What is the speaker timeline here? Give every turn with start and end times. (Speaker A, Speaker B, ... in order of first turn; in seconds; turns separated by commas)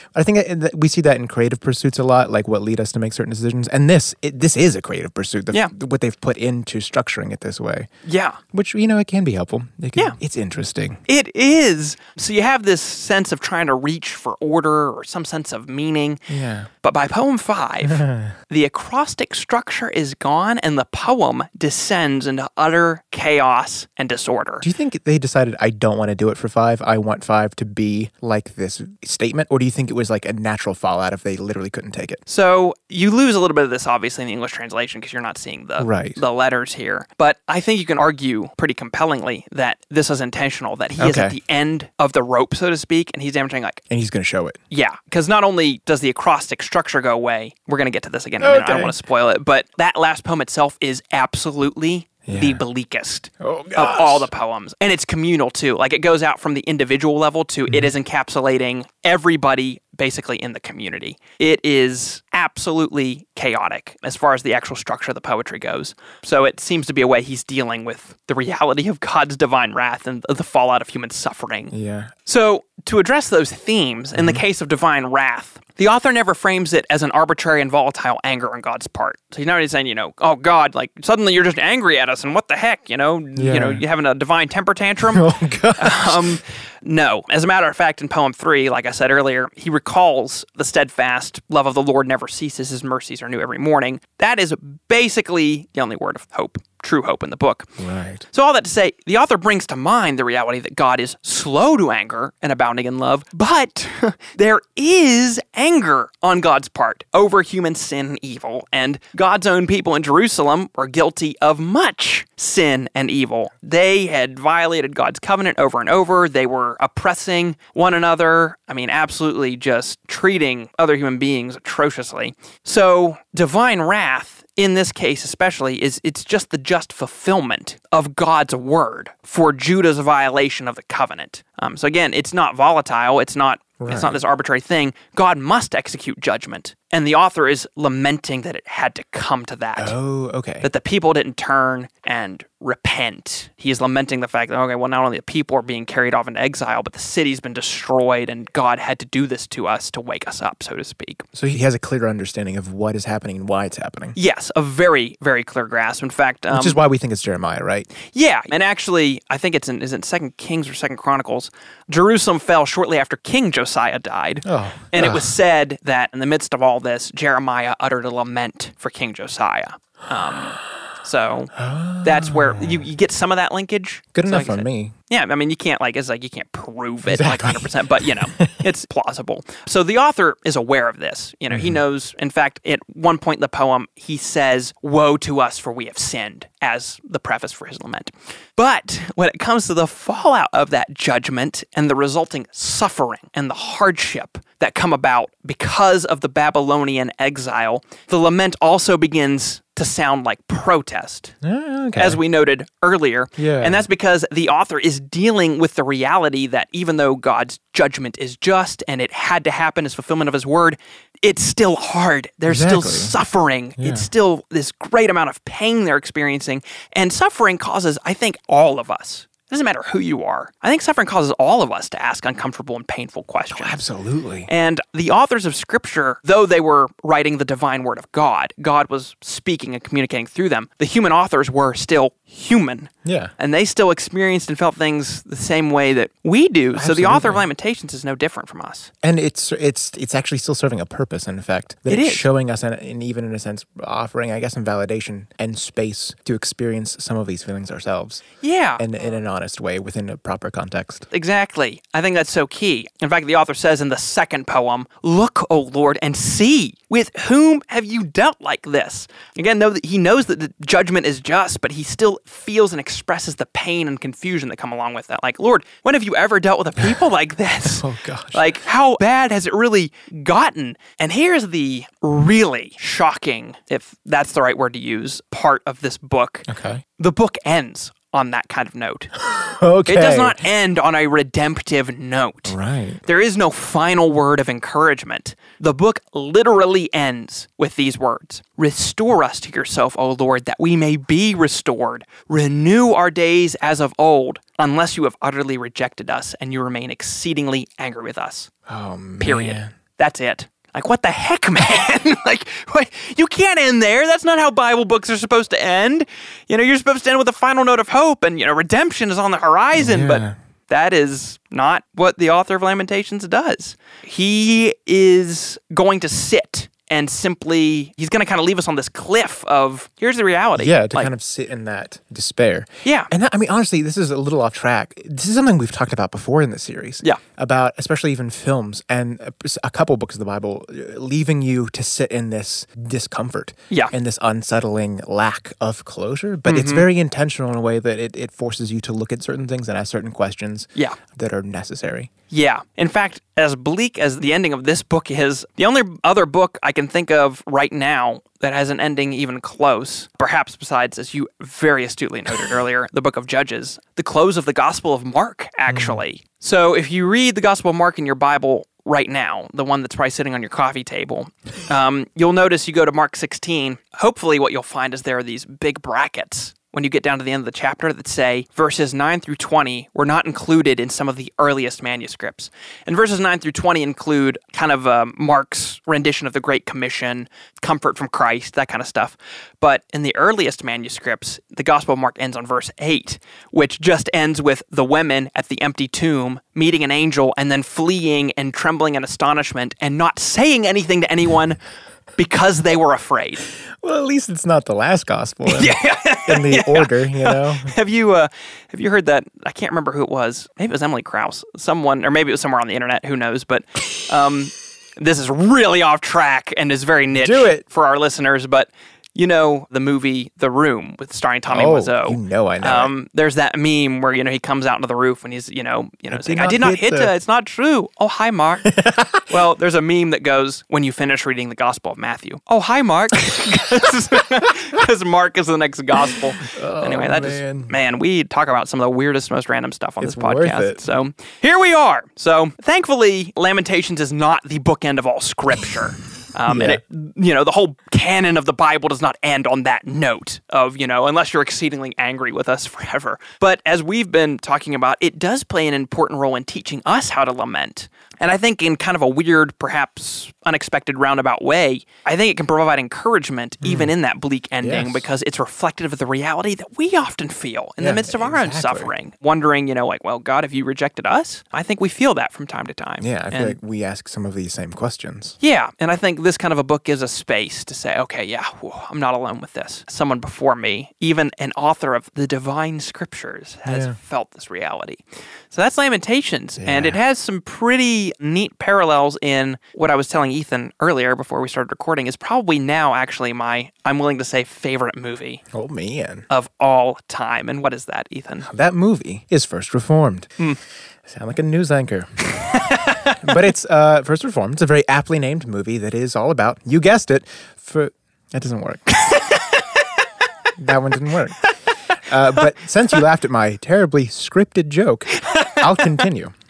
Speaker A: 0.1-7.9, Speaker B: 8.1-8.4, Speaker A: 8.5-11.0, Speaker B: 11.1-16.3, Speaker A: 16.3-16.7, Speaker B: 16.8-24.7, Speaker A: 17.8-18.4, Speaker A: 24.6-32.2, Speaker B: 32.3-43.8, Speaker A: 35.8-36.2, Speaker A: 41.0-41.4, Speaker A: 43.9-44.6, Speaker B: 44.7-71.7, Speaker A: 48.4-49.0, Speaker A: 52.3-52.6, Speaker A: 53.4-54.3, Speaker A: 71.7-72.1, Speaker B: 72.3-85.3, Speaker A: 74.2-74.4, Speaker A: 83.4-83.8, Speaker A: 85.0-86.4, Speaker B: 85.8-97.7, Speaker A: 97.8-98.3, Speaker B: 98.3-139.9, Speaker A: 133.8-134.2, Speaker A: 139.8-140.7, Speaker B: 140.6-151.3, Speaker A: 151.3-154.2, Speaker B: 154.2-156.8, Speaker A: 156.5-157.9, Speaker B: 158.1-201.3, Speaker A: 164.4-165.3, Speaker A: 171.6-172.8, Speaker A: 174.1-174.9, Speaker A: 177.1-178.7, Speaker A: 181.5-181.8, Speaker A: 201.4-202.2, Speaker B: 202.0-223.8, Speaker A: 203.4-203.8, Speaker A: 212.5-213.1, Speaker A: 213.8-214.1, Speaker A: 223.5-224.5, Speaker B: 224.5-238.9, Speaker A: 233.1-233.3, Speaker A: 236.7-237.4, Speaker A: 239.0-248.2, Speaker B: 241.9-242.3, Speaker B: 248.4-248.8, Speaker A: 248.8-251.1, Speaker B: 251.1-279.1, Speaker A: 267.6-268.6, Speaker A: 276.5-276.8, Speaker A: 279.2-280.4, Speaker B: 279.9-298.5, Speaker A: 282.5-283.0, Speaker A: 298.7-299.7, Speaker B: 299.2-321.1, Speaker A: 309.8-310.4, Speaker A: 320.6-342.1, Speaker B: 322.9-323.1, Speaker B: 336.5-336.9, Speaker B: 342.3-391.6, Speaker A: 355.7-356.0, Speaker B: 392.2-393.5, Speaker A: 393.8-397.7, Speaker B: 395.5-463.6, Speaker A: 407.2-407.6, Speaker A: 411.5-412.9, Speaker A: 416.1-417.1, Speaker A: 418.7-419.2, Speaker A: 426.4-427.7, Speaker A: 430.0-430.8, Speaker A: 436.5-436.8, Speaker A: 453.6-453.9, Speaker A: 454.6-455.1, Speaker A: 457.8-458.9, Speaker A: 463.0-465.4, Speaker B: 465.4-485.4, Speaker A: 473.7-474.0, Speaker A: 476.6-477.0, Speaker A: 485.5-486.3, Speaker B: 486.3-488.5, Speaker A: 488.5-490.3, Speaker A: 491.1-492.5, Speaker B: 492.4-493.3, Speaker A: 493.2-498.9, Speaker B: 498.9-499.9, Speaker A: 500.6-501.5, Speaker A: 502.1-506.3, Speaker B: 505.2-505.9